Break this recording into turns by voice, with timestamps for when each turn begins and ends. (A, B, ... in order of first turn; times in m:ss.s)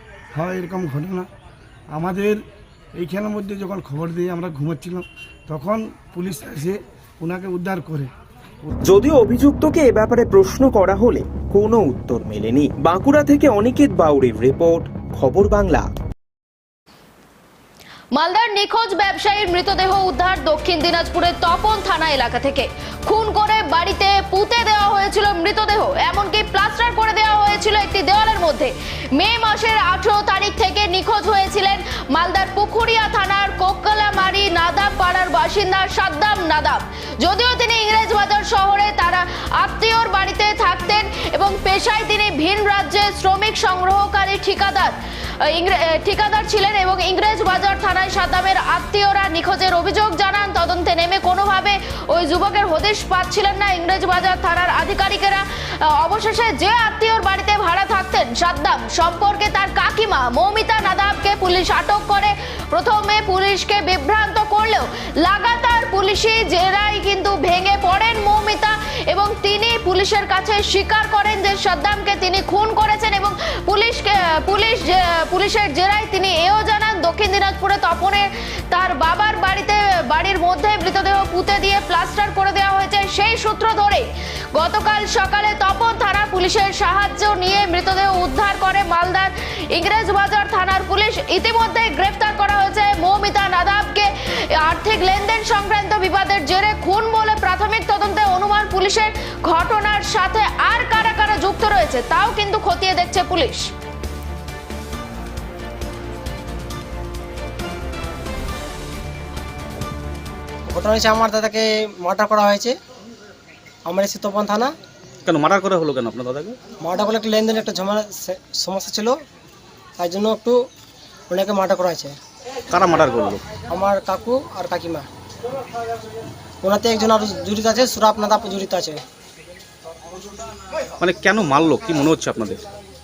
0:00.3-0:01.3 A
0:01.9-0:02.4 A
0:03.0-0:08.1 A
0:08.8-0:15.9 B
0:18.1-1:43.7 C
1:50.7-1:52.7 D
1:53.9-1:54.7 D
1:55.2-1:56.6 E
1:56.8-1:59.2 D
2:00.0-2:00.6 D
2:01.3-2:02.1 D
2:02.7-2:03.4 E
2:03.7-2:05.0 D
2:06.6-2:09.0 D
2:11.0-2:12.6 E